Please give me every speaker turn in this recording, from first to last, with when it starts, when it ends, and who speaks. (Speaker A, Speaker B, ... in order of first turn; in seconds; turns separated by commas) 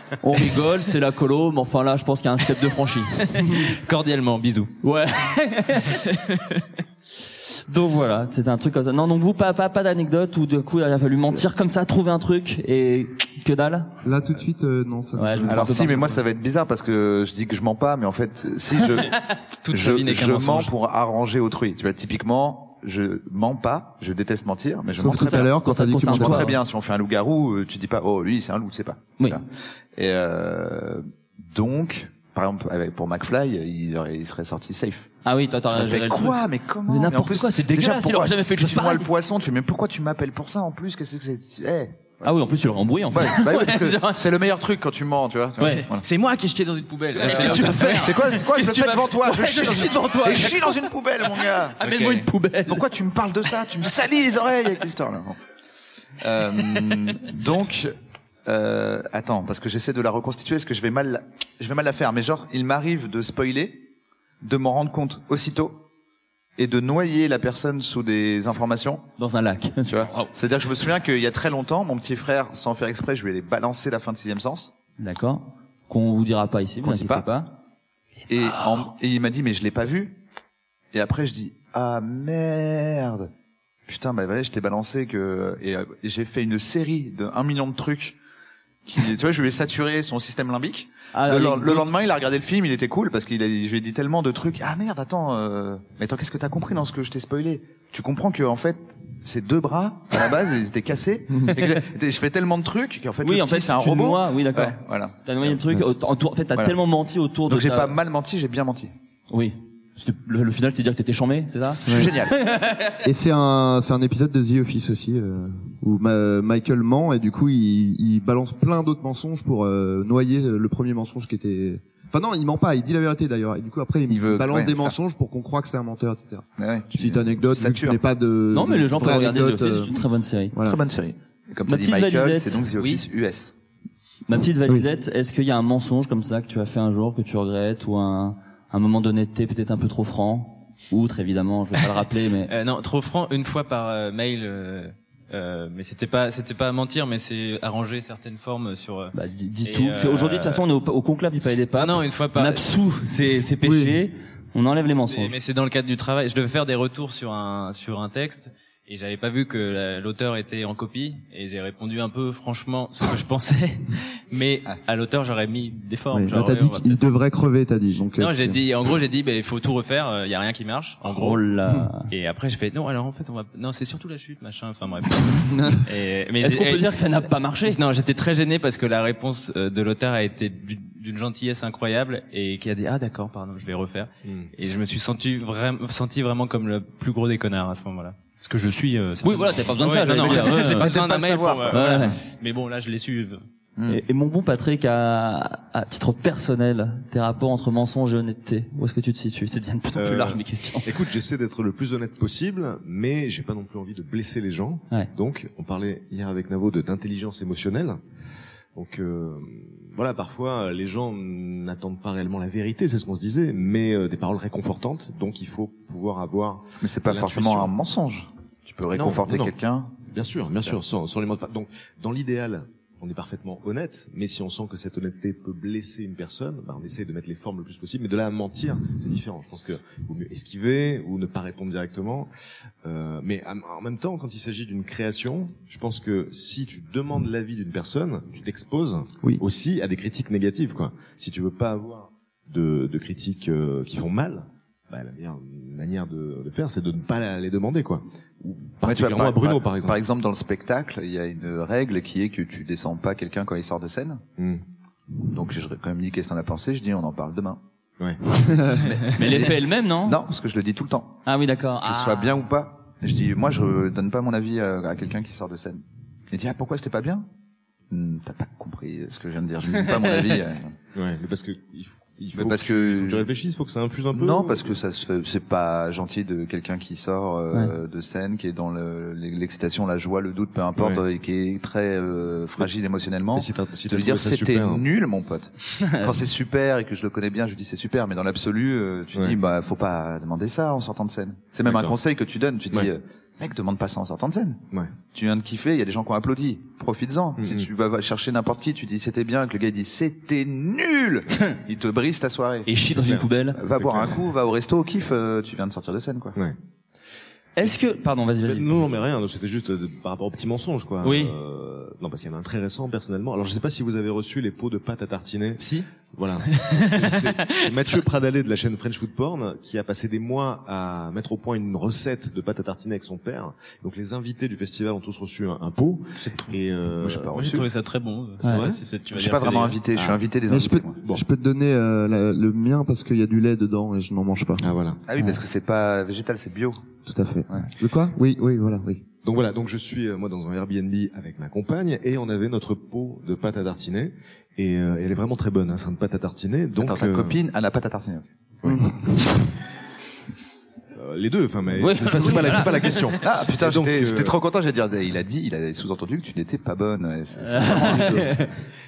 Speaker A: 0.2-3.4, Speaker B: 3.4-4.7, Speaker A: 4.8-6.0, Speaker B: 5.9-6.6, Speaker A: 7.7-14.0, Speaker C: 14.0-16.1, Speaker A: 15.2-16.2, Speaker D: 15.4-19.2, Speaker B: 19.6-20.7, Speaker D: 19.7-35.1, Speaker C: 25.0-26.6, Speaker A: 25.1-26.6, Speaker A: 35.2-39.1, Speaker D: 35.7-42.3, Speaker A: 42.2-44.2, Speaker D: 43.1-46.0, Speaker A: 45.6-45.9, Speaker B: 45.6-50.6, Speaker A: 47.2-50.7, Speaker D: 47.2-55.4, Speaker A: 51.8-52.8, Speaker B: 51.8-52.2, Speaker D: 56.2-57.9, Speaker D: 58.5-63.9, Speaker D: 64.4-65.8, Speaker D: 66.6-69.1, Speaker A: 69.2-70.3, Speaker D: 69.9-74.7, Speaker A: 75.0-77.5, Speaker D: 76.8-77.3, Speaker D: 78.3-80.2, Speaker D: 80.9-83.3, Speaker D: 83.9-88.2, Speaker D: 88.9-105.6, Speaker A: 91.1-91.9, Speaker A: 101.4-101.7, Speaker A: 103.2-107.9, Speaker D: 107.5-108.9, Speaker A: 109.3-113.0, Speaker D: 111.9-112.4, Speaker C: 113.0-130.8, Speaker D: 124.1-125.0, Speaker D: 126.6-128.0, Speaker A: 128.5-130.6, Speaker D: 130.6-133.5, Speaker A: 131.7-132.7, Speaker B: 132.8-133.0, Speaker A: 134.3-142.5, Speaker B: 142.5-149.1, Speaker A: 149.1-155.3, Speaker B: 149.7-150.6, Speaker B: 151.8-152.6, Speaker C: 153.6-154.0, Speaker B: 155.1-167.0, Speaker C: 166.1-168.6, Speaker B: 168.2-171.4, Speaker A: 171.1-172.1, Speaker B: 172.1-176.9, Speaker A: 176.4-177.8, Speaker B: 177.7-193.4, Speaker E: 184.2-184.5, Speaker A: 189.2-190.9, Speaker D: 190.2-192.0, Speaker A: 191.7-192.2, Speaker A: 193.9-200.9, Speaker E: 200.0-208.0, Speaker E: 208.8-217.7, Speaker D: 216.8-219.9, Speaker E: 218.9-232.3, Speaker E: 232.8-250.0, Speaker D: 248.8-254.2, Speaker E: 254.4-254.6, Speaker D: 255.2-257.6, Speaker D: 258.8-261.2, Speaker A: 259.1-260.2, Speaker A: 261.3-262.4, Speaker D: 261.8-267.3, Speaker D: 267.9-270.8, Speaker A: 269.7-270.4, Speaker E: 270.9-274.8, Speaker D: 272.3-273.3, Speaker D: 274.1-302.7, Speaker E: 280.8-281.0, Speaker E: 283.3-284.9, Speaker A: 285.8-286.2, Speaker E: 291.6-292.0, Speaker E: 297.4-297.7, Speaker A: 302.7-303.6, Speaker E: 302.9-304.2, Speaker D: 303.6-306.4, Speaker A: 307.6-308.8, Speaker E: 307.6-307.9, Speaker E: 308.4-327.3, Speaker A: 311.0-311.4, Speaker D: 327.0-327.7, Speaker B: 327.3-329.8, Speaker E: 328.4-328.8, Speaker D: 329.1-331.0, Speaker E: 329.9-330.2, Speaker C: 330.5-334.7, Speaker E: 334.6-335.0, Speaker D: 335.1-336.8, Speaker C: 337.1-339.0, Speaker E: 339.2-347.4, Speaker D: 346.8-348.2, Speaker E: 348.6-348.9, Speaker C: 348.7-349.4, Speaker E: 350.9-354.4, Speaker A: 351.8-352.9, Speaker D: 353.2-358.4, Speaker A: 357.4-358.5, Speaker E: 357.8-358.2